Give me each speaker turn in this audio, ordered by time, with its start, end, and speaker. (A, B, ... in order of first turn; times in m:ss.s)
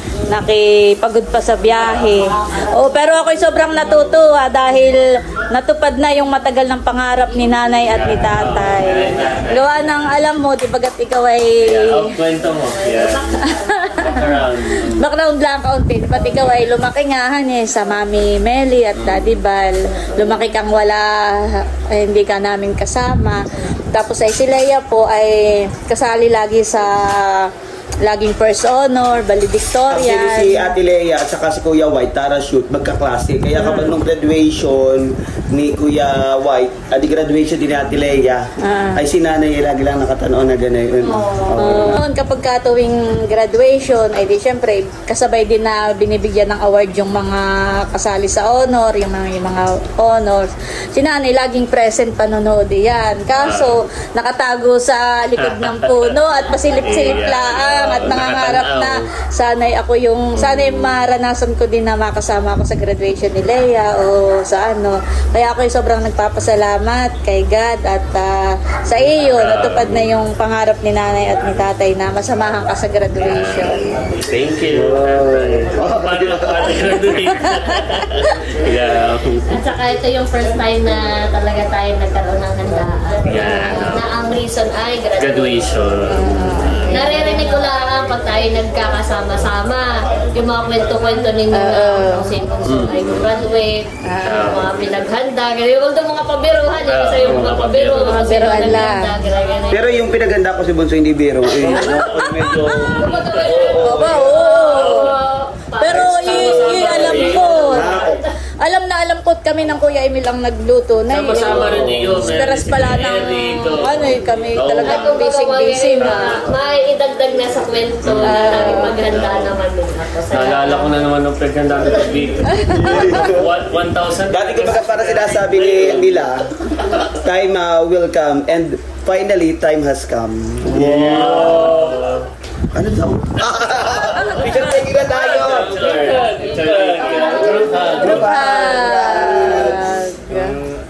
0:00.3-0:12.1 A
0:07.9-0:09.7 B
0:11.6-0:13.4 B
0:12.5-0:14.4 C
0:13.4-0:30.7 A
0:14.0-0:15.0 B
0:19.0-0:19.4 B
0:29.9-0:42.0 D
0:38.6-0:39.0 A
0:41.0-0:41.6 C
0:41.6-1:13.9 A
0:53.4-0:53.7 B
0:55.4-0:56.2 B
0:56.8-0:59.0 B
1:00.4-1:00.9 B
1:09.2-1:10.1 B
1:13.2-1:19.6 B
1:14.7-1:16.9 D
1:19.5-1:25.8 C
1:23.2-1:24.1 B
1:23.4-1:23.9 A
1:25.2-1:26.8 B
1:26.1-1:27.6 A
1:26.9-1:39.9 C
1:31.5-1:32.3 A
1:32.6-1:33.2 B
1:34.0-1:34.5 A
1:34.2-1:34.8 B
1:36.8-1:38.9 B
1:38.0-1:39.0 A
1:39.7-1:44.3 D
1:41.5-1:43.8 B
1:42.8-1:48.3 C
1:43.8-1:45.1 A
1:44.7-1:45.2 B
1:45.8-1:48.0 A
1:45.9-1:48.2 D
1:46.0-1:48.1 B
1:48.6-1:56.4 A
1:51.1-1:55.2 B
1:51.8-1:52.1 D
1:54.8-2:01.0 C
1:56.0-1:56.6 B
1:58.0-1:59.6 B
1:58.2-1:58.9 A
2:00.3-2:06.3 B
2:02.7-2:03.6 D
2:04.3-2:06.5 D
2:07.1-2:11.9 D
2:10.7-2:12.3 B
2:12.7-2:16.0 D
2:14.0-2:18.3 B
2:15.7-2:18.8 C
2:16.6-2:20.5 D
2:18.0-2:20.6 A